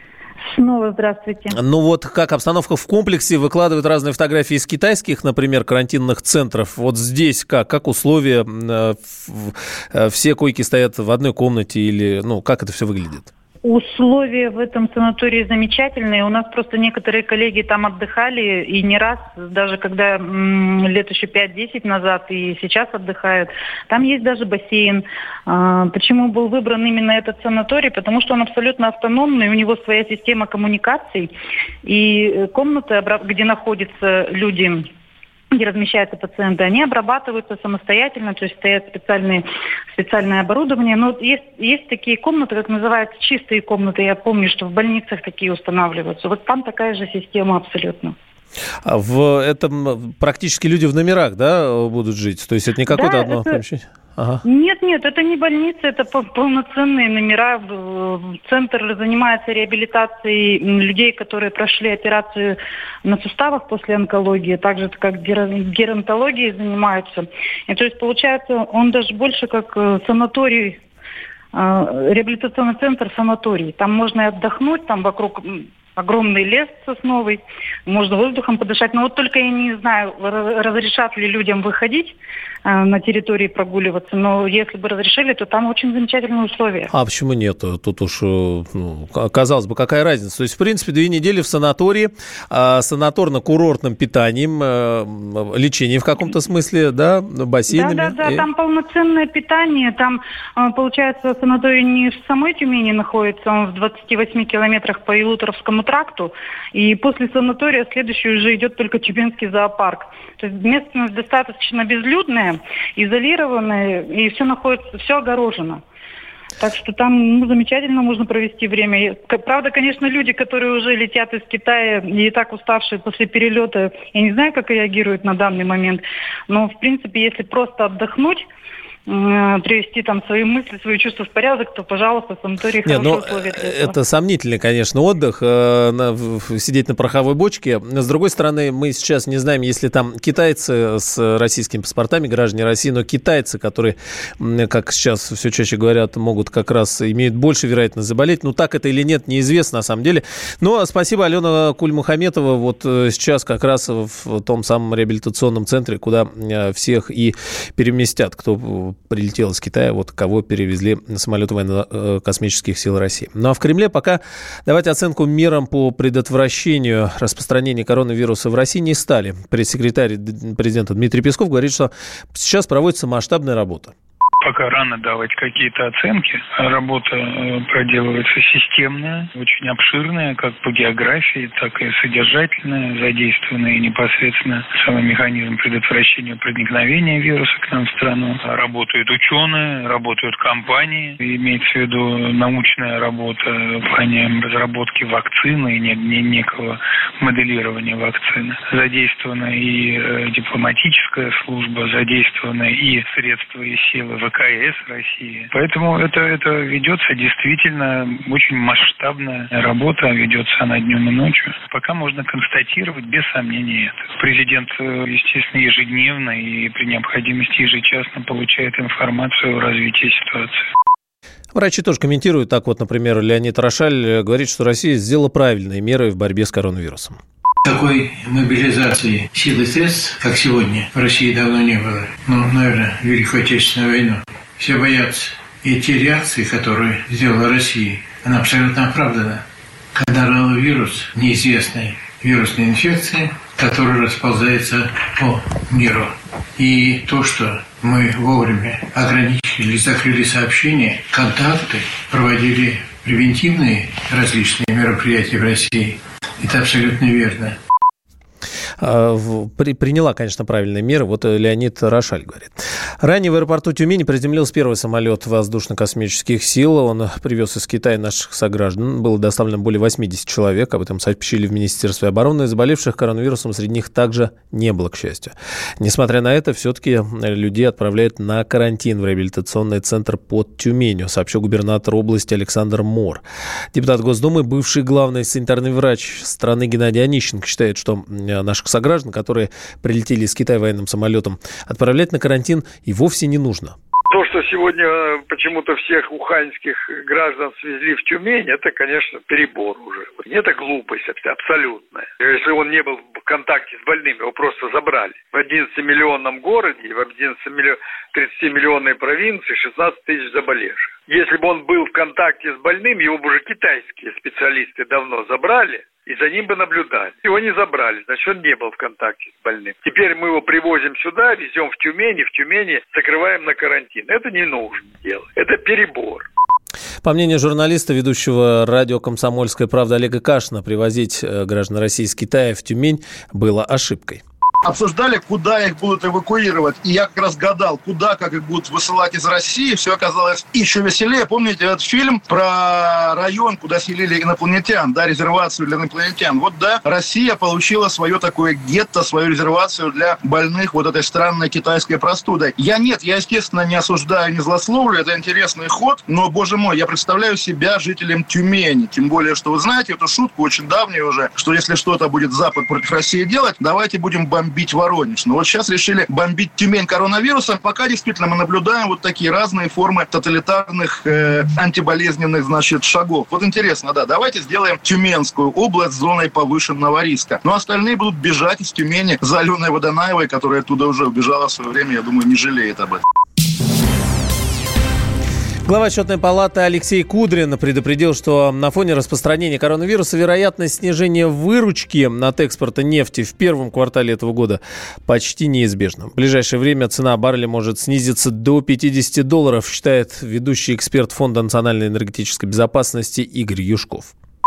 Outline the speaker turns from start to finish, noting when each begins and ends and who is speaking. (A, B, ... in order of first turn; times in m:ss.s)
0:00.5-0:01.5 A
0:01.5-0:13.3 B
0:13.6-0:31.3 A
0:31.8-0:34.9 A
0:35.5-0:48.1 A
0:48.8-0:54.4 B
0:52.9-0:53.6 A
0:54.4-1:10.8 A
1:11.5-1:26.9 A
1:26.9-1:38.5 B
1:37.7-1:55.8 A
1:56.6-2:08.4 A
2:09.1-2:14.0 A
2:12.8-2:53.9 B
2:54.4-3:40.6 C
3:41.5-3:47.2 B
3:47.6-3:59.4 D
3:59.9-4:17.6 D
4:18.8-4:53.7 B
4:54.1-5:26.2 E
5:27.0-5:34.2 B
5:34.6-6:23.0 F
6:25.6-6:44.1 B